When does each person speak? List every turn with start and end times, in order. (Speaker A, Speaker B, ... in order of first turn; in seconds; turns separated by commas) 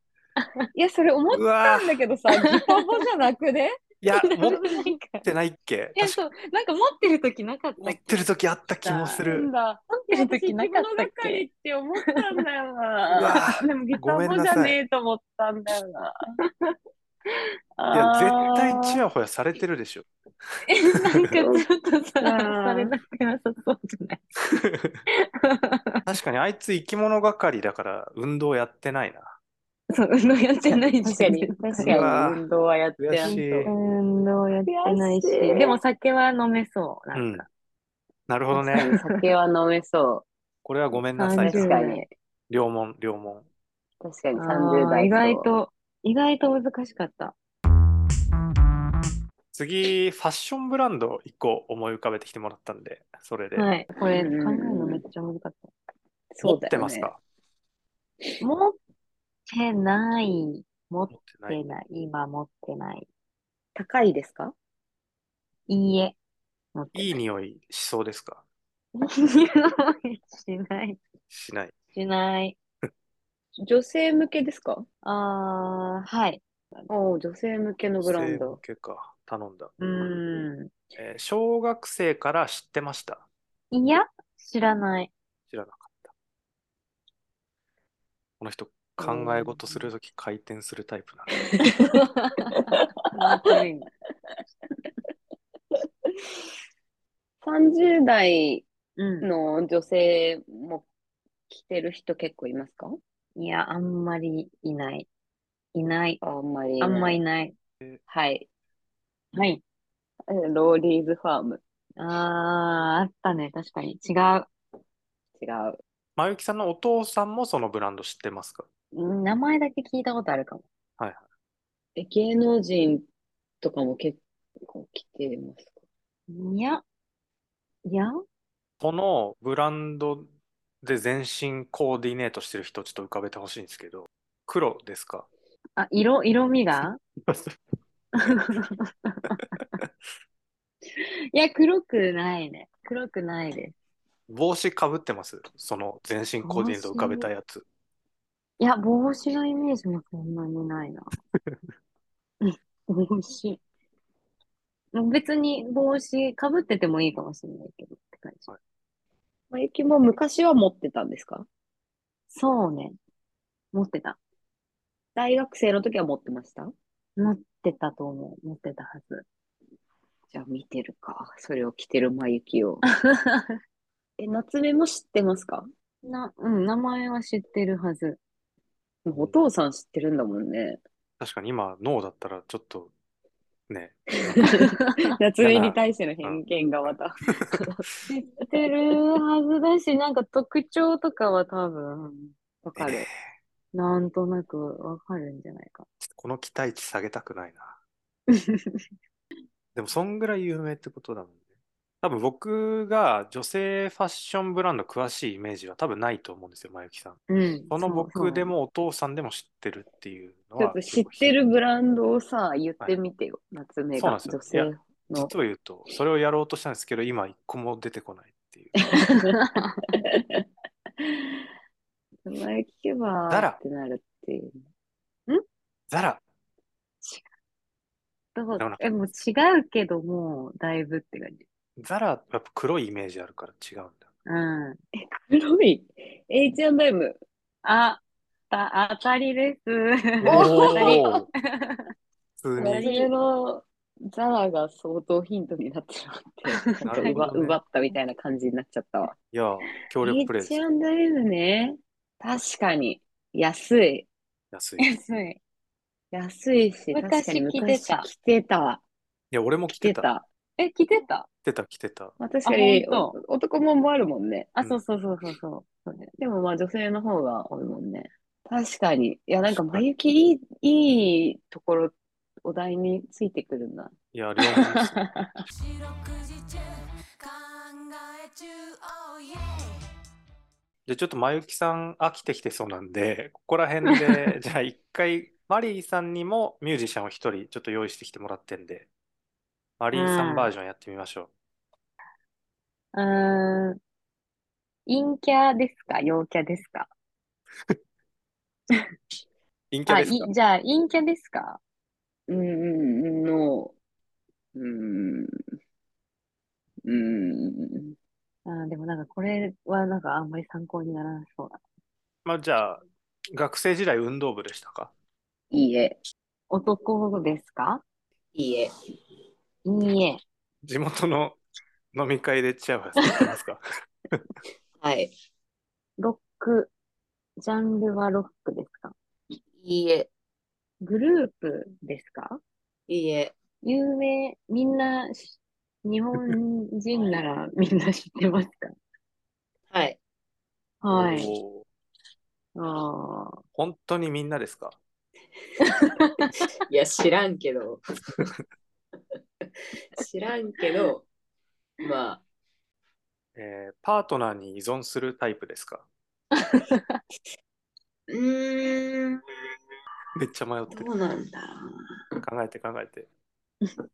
Speaker A: 0.4-0.7, Speaker B: 0.7-3.8, Speaker C: 1.3-2.0, Speaker A: 2.4-2.8, Speaker C: 4.0-4.6, Speaker A: 4.1-5.3, Speaker C: 5.2-6.2, Speaker A: 5.9-8.2, Speaker C: 7.8-9.5, Speaker A: 8.8-9.2, Speaker B: 9.2-16.3, Speaker A: 10.0-11.4, Speaker A: 12.1-12.3, Speaker C: 13.1-14.8, Speaker B: 17.8-19.0, Speaker C: 17.9-20.1, Speaker A: 20.7-24.2, Speaker B: 21.4-21.6, Speaker B: 22.2-22.9, Speaker C: 24.5-25.0, Speaker A: 25.1-26.0, Speaker C: 26.1-29.4, Speaker A: 29.9-32.0, Speaker B: 30.7-33.7, Speaker C: 31.8-32.4, Speaker C: 33.0-33.7, Speaker A: 33.2-37.5, Speaker B: 34.7-35.8, Speaker C: 37.1-37.5, Speaker C: 38.3-38.9, Speaker A: 38.5-39.2, Speaker B: 38.7-40.2, Speaker C: 40.6-41.8, Speaker A: 41.2-42.0, Speaker B: 41.4-42.0, Speaker C: 42.5-43.5, Speaker B: 44.0-45.5, Speaker A: 44.4-47.3, Speaker C: 49.5-53.7, Speaker A: 53.5-55.7, Speaker B: 54.0-55.0, Speaker B: 56.3-57.1, Speaker C: 56.4-57.2, Speaker A: 58.4-58.8, Speaker A: 59.5-63.0, Speaker C: 61.1-61.6, Speaker B: 63.7-64.5, Speaker A: 65.7-66.2, Speaker A: 66.7-67.2, Speaker C: 66.9-68.4, Speaker A: 69.0-71.0, Speaker C: 71.3-71.7, Speaker A: 71.9-72.6, Speaker B: 73.6-74.8, Speaker A: 75.0-76.9, Speaker B: 76.9-78.6, Speaker C: 78.0-79.7, Speaker A: 79.8-80.7, Speaker C: 81.0-83.2, Speaker A: 83.7-85.1, Speaker C: 85.5-86.1, Speaker C: 88.4-91.5, Speaker A: 89.0-89.8, Speaker B: 91.5-91.8, Speaker A: 91.8-93.9, Speaker B: 97.4-98.7, Speaker A: 99.0-99.3, Speaker B: 99.2-100.9, Speaker B: 101.5-103.0, Speaker A: 103.3-105.1, Speaker A: 105.7-106.2, Speaker B: 106.2-107.2, Speaker A: 106.8-107.5, Speaker B: 108.1-108.5, Speaker A: 109.3-109.6, Speaker B: 110.3-111.6, Speaker A: 112.0-114.5, Speaker B: 115.4-115.8, Speaker C: 116.2-118.7, Speaker A: 118.9-120.6, Speaker B: 122.0-123.0, Speaker B: 123.6-125.7, Speaker A: 126.3-126.8, Speaker A: 127.8-128.1, Speaker C: 128.8-130.3, Speaker C: 130.8-135.3, Speaker A: 135.8-137.0, Speaker C: 136.8-137.6, Speaker A: 138.2-139.6, Speaker A: 141.0-143.7, Speaker C: 144.3-147.6, Speaker A: 146.4-147.3, Speaker A: 148.6-151.1, Speaker A: 152.4-153.6, Speaker A: 154.9-158.5, Speaker B: 159.5-161.4, Speaker A: 162.3-163.0, Speaker A: 163.7-164.2, Speaker B: 165.2-166.7, Speaker A: 167.2-169.2, Speaker B: 170.3-172.8, Speaker A: 173.0-173.6, Speaker B: 174.2-175.7, Speaker A: 176.0-178.2, Speaker B: 179.0-180.8, Speaker C: 181.2-182.9, Speaker C: 183.7-184.4, Speaker B: 184.3-187.8, Speaker A: 184.4-185.0, Speaker C: 185.4-187.6, Speaker A: 188.1-192.3, Speaker B: 192.6-193.1, Speaker C: 192.8-193.1, Speaker A: 193.7-195.8, Speaker C: 196.0-197.8, Speaker A: 198.3-198.8, Speaker C: 199.7-201.4, Speaker C: 202.0-211.3, Speaker A: 207.3-208.5, Speaker B: 210.6-215.3, Speaker C: 214.0-218.8, Speaker B: 218.8-219.3, Speaker A: 219.2-219.9, Speaker B: 219.9-220.4, Speaker B: 222.2-224.6, Speaker C: 223.3-223.6, Speaker C: 225.9-226.2, Speaker A: 228.3-231.4, Speaker C: 228.6-228.9, Speaker C: 231.8-234.1, Speaker A: 234.2-234.8, Speaker B: 234.9-237.2, Speaker A: 237.6-241.9, Speaker C: 240.2-241.3, Speaker B: 240.3-241.1, Speaker C: 242.4-242.9, Speaker B: 242.6-249.1, Speaker A: 242.6-243.1, Speaker A: 246.7-247.3, Speaker C: 246.8-247.6, Speaker C: 249.3-250.6, Speaker B: 250.0-254.1, Speaker C: 254.5-254.9, Speaker A: 254.8-255.4, Speaker B: 256.1-258.8, Speaker A: 256.9-258.1, Speaker C: 259.3-260.1, Speaker B: 259.7-260.2, Speaker A: 260.6-261.3, Speaker C: 261.4-262.1, Speaker B: 262.2-264.6, Speaker A: 262.4-263.2, Speaker A: 264.6-266.1, Speaker B: 266.2-273.9, Speaker C: 269.5-269.8, Speaker C: 274.1-275.0, Speaker B: 274.4-275.4, Speaker D: 275.5-279.8, Speaker C: 280.9-288.9, Speaker C: 289.8-291.3, Speaker A: 289.9-290.5, Speaker A: 292.9-293.8, Speaker A: 294.9-296.9, Speaker C: 299.7-300.3, Speaker A: 299.9-301.6, Speaker B: 302.3-303.7, Speaker B: 304.5-305.4, Speaker B: 306.8-307.9, Speaker A: 308.4-311.6, Speaker C: 312.2-314.9, Speaker B: 315.5-316.0, Speaker A: 316.5-317.8, Speaker B: 318.3-318.7, Speaker A: 319.6-320.2, Speaker C: 320.6-321.4, Speaker C: 321.9-324.2, Speaker B: 324.8-325.1, Speaker A: 326.0-326.7, Speaker A: 327.4-328.9, Speaker B: 329.6-330.1, Speaker A: 330.8-332.4, Speaker B: 332.9-333.3, Speaker A: 333.6-338.7, Speaker B: 339.7-340.0, Speaker A: 340.8-341.3, Speaker C: 340.9-341.7, Speaker A: 342.5-343.4, Speaker C: 343.5-344.8, Speaker A: 345.6-346.3, Speaker B: 346.6-347.8, Speaker B: 350.0-351.1, Speaker B: 351.8-352.2, Speaker C: 353.3-355.9, Speaker A: 356.4-357.0, Speaker B: 358.1-359.2, Speaker C: 360.1-360.9, Speaker B: 360.7-362.0, Speaker C: 362.2-363.1